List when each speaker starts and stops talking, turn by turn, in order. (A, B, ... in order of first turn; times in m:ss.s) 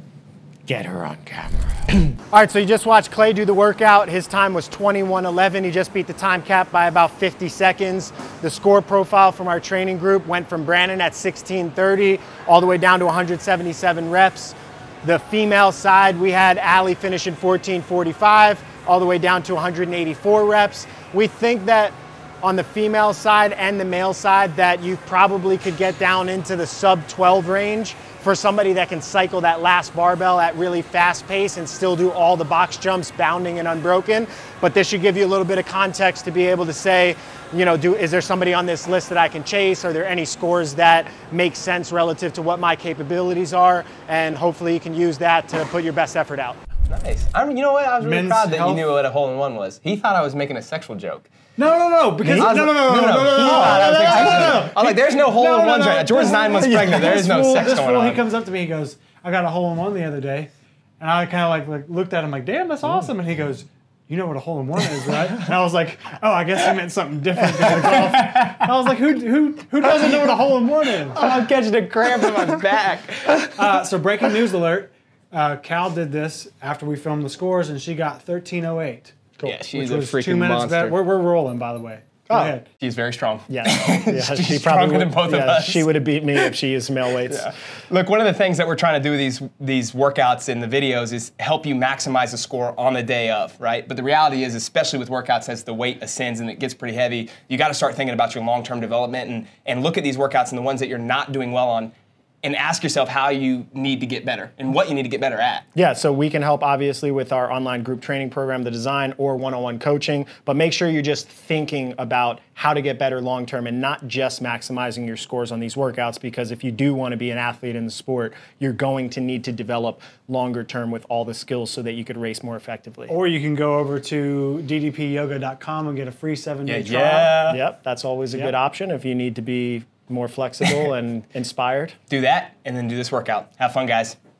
0:00.7-0:46.6 A
0:46.9-0:51.3 B
0:48.0-0:48.9 C
0:51.6-1:11.2 C
0:52.2-0:52.6 A
0:52.4-0:58.2 B
0:53.4-0:54.6 A
1:07.9-1:08.6 B
1:11.2-1:13.6 B
1:13.5-1:22.7 C
1:19.4-1:21.0 B
1:22.3-1:22.6 A
1:22.8-1:26.5 B
1:23.5-1:27.5 A
1:27.3-1:45.7 B
1:45.8-2:03.1 A
2:03.1-2:07.4 C
2:06.7-2:07.6 B
2:07.5-2:12.0 A
2:12.1-2:14.2 B